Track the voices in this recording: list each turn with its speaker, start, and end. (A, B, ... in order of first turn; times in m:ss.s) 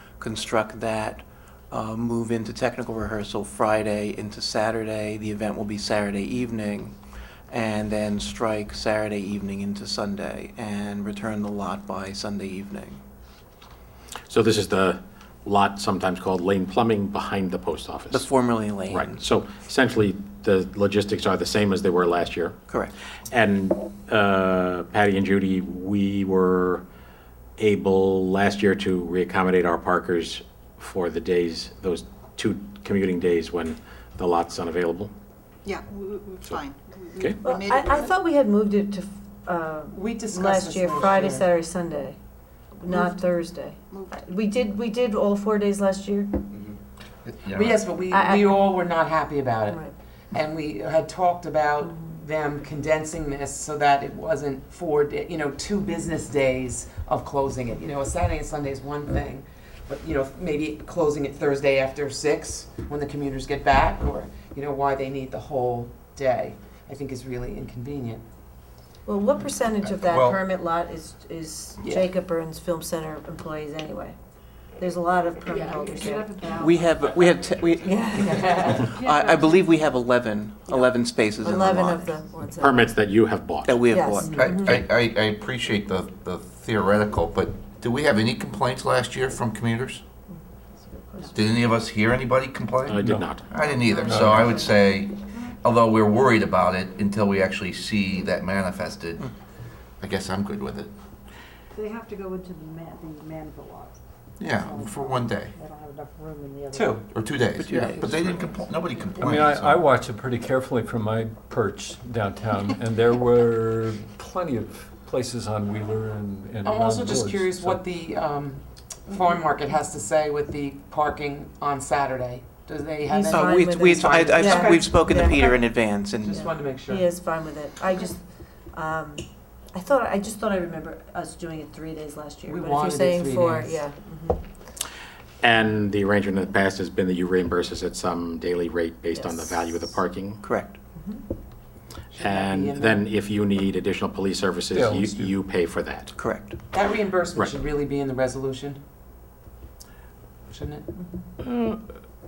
0:00.2-0:06.9 A
0:07.5-0:13.0 A
0:14.3-0:22.6 B
0:18.1-0:19.2 A
0:23.3-0:26.8 B
0:27.6-0:35.1 B
0:35.6-0:38.1 C
0:37.4-0:42.2 D
0:39.9-0:41.5 E
0:42.8-0:46.5 D
0:42.9-0:43.2 C
0:43.9-0:44.2 C
0:47.2-0:47.8 F
0:47.5-0:49.8 E
0:48.1-0:48.7 D
0:49.7-0:50.0 D
0:50.3-1:08.2 E
0:51.8-0:52.2 D
1:09.0-1:14.2 D
1:10.0-1:10.4 F
1:11.8-1:12.1 E
1:14.8-1:16.3 D
1:15.5-1:17.0 G
1:16.3-1:22.0 A
1:17.9-1:18.6 D
1:18.4-1:18.7 E
1:18.7-1:19.7 G
1:21.4-1:22.9 D
1:22.6-1:23.8 B
1:23.6-1:24.3 A
1:23.9-1:24.8 D
1:24.3-1:24.5 E
1:24.3-1:30.0 F
1:30.3-1:31.4 D
1:31.3-1:39.3 F
1:32.9-1:33.6 B
1:33.0-1:33.4 H
1:33.6-1:34.7 D
1:34.0-1:34.6 H
1:40.0-1:40.9 F
1:41.8-1:47.0 G
1:44.4-1:45.5 F
1:46.7-1:47.1 E
1:47.1-1:49.9 F
1:47.6-1:48.5 A
1:48.5-1:49.3 G
1:49.2-1:57.8 H
1:56.6-2:05.0 E
2:03.1-2:08.2 D
2:03.3-2:06.4 A
2:06.1-2:07.1 E
2:08.7-2:14.5 D
2:12.5-2:13.8 E
2:15.4-2:20.4 B
2:19.2-2:19.9 D
2:20.4-2:20.8 A
2:21.0-2:21.2 D
2:22.1-2:23.1 E
2:22.2-2:26.1 B
2:24.7-2:25.3 H
2:26.2-2:26.5 A
2:26.7-2:28.8 E
2:30.5-2:30.9 E
2:31.4-2:31.8 B